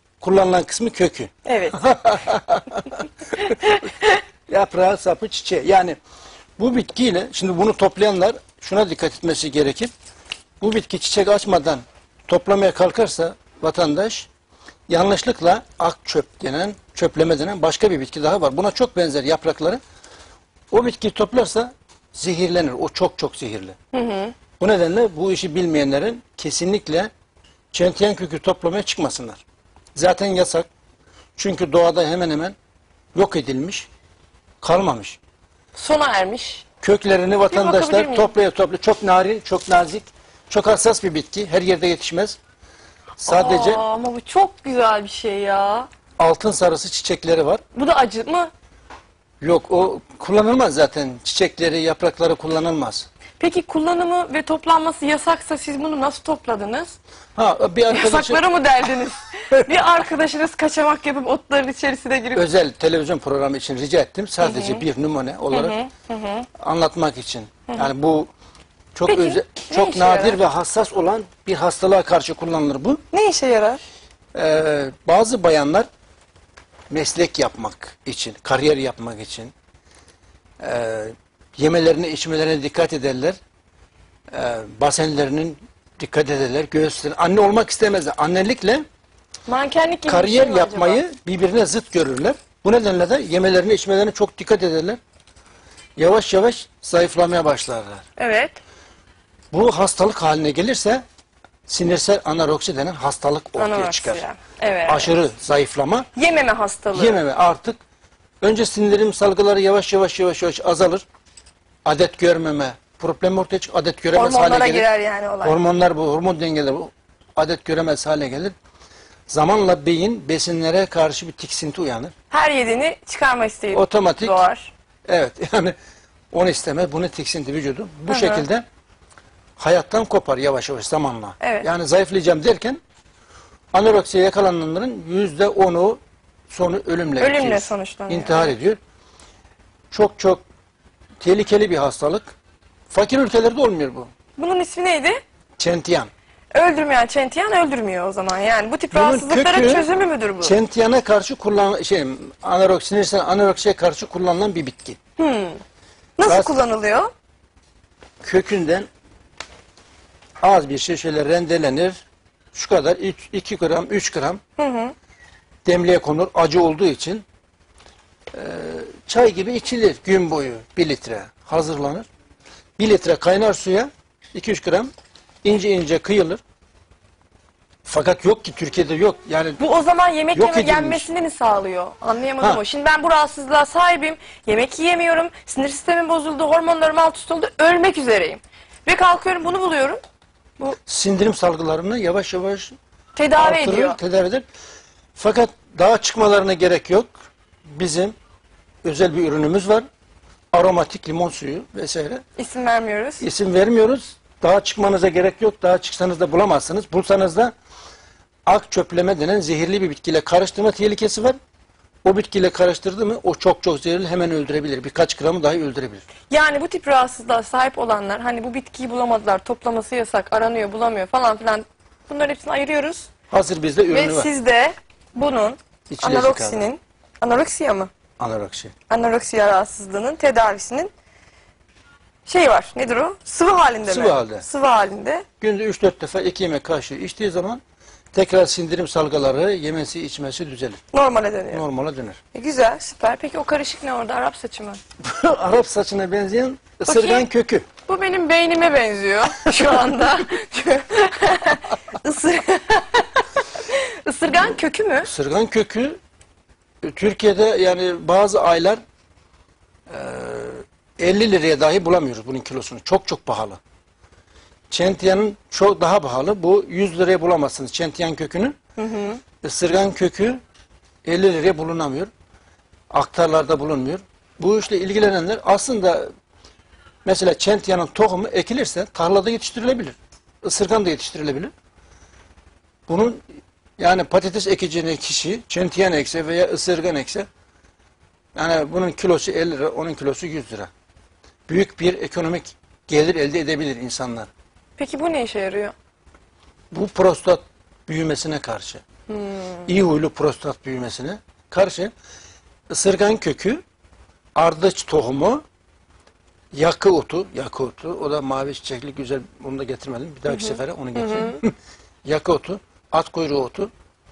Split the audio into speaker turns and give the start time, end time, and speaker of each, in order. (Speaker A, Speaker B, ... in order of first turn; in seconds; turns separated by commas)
Speaker A: 0.2-3.8, Speaker B: 1.4-1.9, Speaker B: 3.6-4.1, Speaker A: 4.5-6.0, Speaker A: 6.6-9.9, Speaker A: 10.6-14.3, Speaker A: 14.9-19.8, Speaker A: 20.7-23.8, Speaker B: 23.9-24.4, Speaker A: 24.6-27.1, Speaker A: 27.7-29.4, Speaker A: 29.9-30.7, Speaker A: 31.4-32.6, Speaker A: 33.1-33.9, Speaker A: 34.6-35.2, Speaker B: 35.7-36.7, Speaker A: 36.8-42.4, Speaker B: 37.5-38.3, Speaker B: 43.2-45.9, Speaker A: 43.2-43.8, Speaker A: 46.2-47.6, Speaker B: 47.7-48.5, Speaker A: 49.4-53.1, Speaker B: 53.4-57.0, Speaker A: 57.4-58.4, Speaker B: 57.9-62.4, Speaker A: 62.4-65.8, Speaker B: 64.4-64.8, Speaker B: 65.5-66.5, Speaker A: 66.6-68.3, Speaker A: 69.0-73.0, Speaker B: 69.1-70.4, Speaker B: 73.1-73.8, Speaker A: 74.3-75.9, Speaker A: 76.9-79.5, Speaker A: 80.6-83.4, Speaker A: 84.3-88.8, Speaker B: 89.5-91.0, Speaker A: 90.1-95.0, Speaker A: 96.0-98.0, Speaker B: 98.2-98.6, Speaker A: 99.5-101.0, Speaker A: 101.7-104.2, Speaker B: 103.6-105.1, Speaker A: 104.9-106.1, Speaker B: 106.2-107.2, Speaker A: 106.9-107.8, Speaker A: 108.4-111.0, Speaker A: 111.8-114.9, Speaker B: 114.1-115.6, Speaker A: 115.4-118.5, Speaker A: 119.3-122.1, Speaker B: 122.3-124.7, Speaker A: 123.7-124.4, Speaker A: 125.1-125.8, Speaker A: 126.3-128.7, Speaker B: 128.1-128.4, Speaker A: 129.6-132.8, Speaker B: 131.4-131.7, Speaker A: 133.7-138.8, Speaker B: 137.2-138.5, Speaker A: 139.9-140.4, Speaker A: 141.2-142.3, Speaker A: 142.9-144.1, Speaker B: 144.4-145.2, Speaker A: 145.6-146.1, Speaker B: 146.5-150.6, Speaker A: 148.9-149.9, Speaker A: 150.4-155.0, Speaker B: 155.2-155.6, Speaker B: 156.2-157.1, Speaker A: 156.2-156.5, Speaker A: 158.2-158.9, Speaker A: 160.4-162.0, Speaker A: 162.5-164.4, Speaker B: 164.6-164.9, Speaker A: 165.7-167.2, Speaker A: 168.3-172.1, Speaker A: 172.8-174.9, Speaker A: 175.4-176.4, Speaker A: 177.8-179.6, Speaker B: 179.6-190.0, Speaker A: 180.3-181.1, Speaker A: 190.9-192.8, Speaker B: 193.2-194.0, Speaker A: 193.4-194.4, Speaker A: 195.2-197.1, Speaker A: 197.7-198.1, Speaker A: 198.8-199.8, Speaker A: 200.5-202.2, Speaker B: 202.4-203.2, Speaker A: 203.2-207.5, Speaker A: 208.5-211.4, Speaker A: 212.0-216.0, Speaker B: 216.3-223.1, Speaker A: 223.3-224.3, Speaker B: 223.9-227.9, Speaker A: 225.9-226.7, Speaker A: 228.2-228.8, Speaker B: 228.9-230.9, Speaker B: 232.3-235.2, Speaker A: 233.9-234.4, Speaker A: 235.4-237.6, Speaker A: 238.1-240.8, Speaker B: 240.9-241.6, Speaker A: 241.5-242.2, Speaker B: 242.3-244.8, Speaker A: 245.0-247.7, Speaker B: 246.9-247.3, Speaker B: 247.9-255.1, Speaker A: 255.0-256.0, Speaker A: 256.8-258.8, Speaker A: 259.9-263.6, Speaker A: 264.7-268.6, Speaker B: 268.8-269.2, Speaker A: 269.4-270.4, Speaker A: 271.1-272.1, Speaker A: 272.9-276.1, Speaker A: 277.1-281.5, Speaker A: 282.9-283.2, Speaker A: 283.8-287.3, Speaker A: 288.4-290.7, Speaker A: 291.5-294.3, Speaker B: 294.8-295.7, Speaker A: 296.7-298.8, Speaker B: 299.1-299.7, Speaker A: 299.7-301.9, Speaker A: 302.7-303.6, Speaker A: 304.4-305.4, Speaker A: 306.5-313.7, Speaker B: 310.3-311.4